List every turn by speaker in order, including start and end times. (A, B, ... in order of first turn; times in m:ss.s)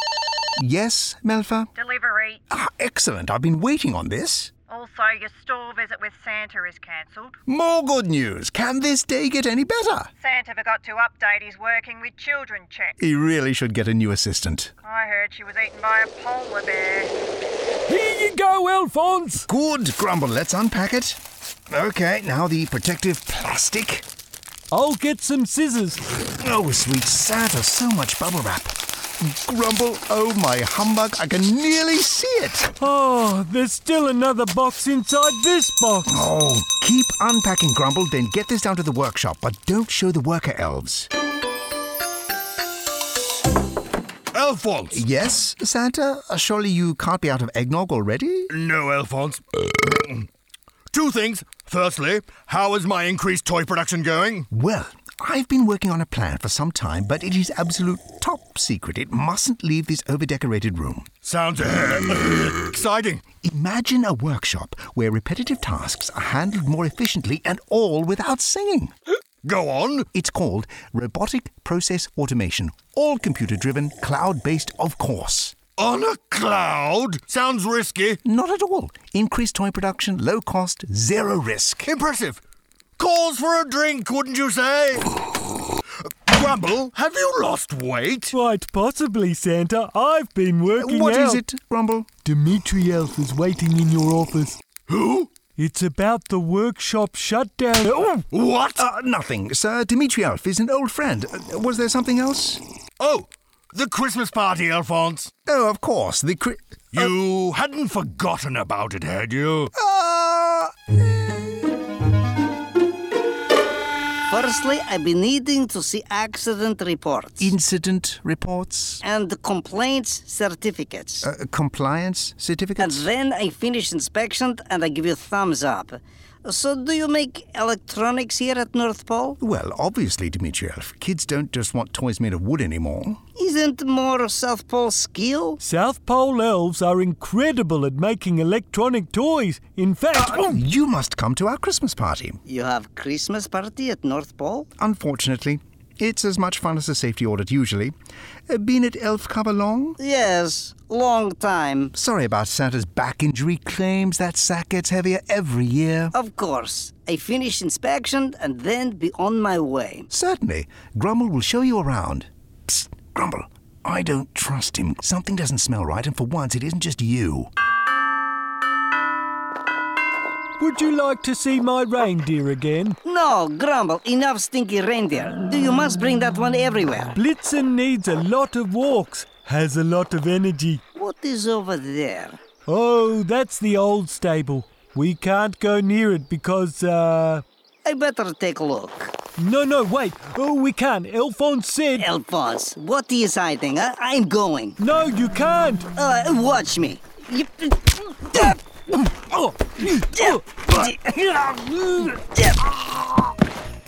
0:00.6-0:01.7 A
0:01.8-0:02.4 B
0:02.5-0:04.5 A
0:04.7-0:07.4 B
0:07.5-0:10.1 A
0:10.2-0:13.0 B
0:13.0-0:14.7 A
0:14.8-0:17.1 B
0:17.9-0:19.5 C
0:19.5-0:24.0 A
0:24.7-0:26.0 C
0:26.4-0:32.7 A
0:32.8-0:36.2 C
0:36.1-0:41.1 A
0:44.3-0:45.0 D
0:44.9-0:48.5 A
0:48.5-0:50.3 D
0:50.9-0:54.5 D
0:54.5-1:01.1 A
1:01.2-1:03.2 D
1:03.4-1:08.9 A
1:09.4-1:10.1 D
1:10.1-1:15.6 A
1:15.8-1:18.2 D
1:18.2-1:21.9 A
1:21.8-1:22.4 D
1:23.0-1:25.2 D
1:26.0-1:28.4 D
1:28.3-1:31.4 C
1:30.8-1:32.1 A
1:32.2-1:34.6 C
1:34.9-1:35.4 D
1:35.5-1:38.2 C
1:38.3-1:38.8 D
1:38.8-1:42.6 A
1:43.0-1:45.3 D
1:45.5-1:47.0 A
1:46.9-1:49.7 D
1:49.8-1:51.5 A
1:54.3-1:57.5 E
1:57.4-1:59.0 A
1:59.0-2:01.3 E
2:01.2-2:03.1 A
2:02.8-2:09.4 E
2:09.4-2:13.2 A
2:13.4-2:15.6 E
2:15.6-2:20.6 C
2:20.2-2:22.4 A
2:22.5-2:24.7 E
2:24.8-2:27.9 A
2:28.5-2:30.0 A
2:30.0-2:31.9 E
2:31.9-2:36.2 A
2:36.1-2:40.1 E
2:40.1-2:47.5 A
2:50.6-2:53.0 C
2:53.0-2:57.2 E
2:57.1-3:00.8 C
3:01.0-3:02.4 E
3:02.7-3:07.4 C
3:07.8-3:09.2 E
3:09.4-3:12.1 C
3:12.0-3:14.8 E
3:14.8-3:15.9 C
3:15.9-3:18.6 E
3:18.4-3:22.2 C
3:19.9-3:21.1 E
3:22.2-3:22.7 E
3:22.8-3:23.2 C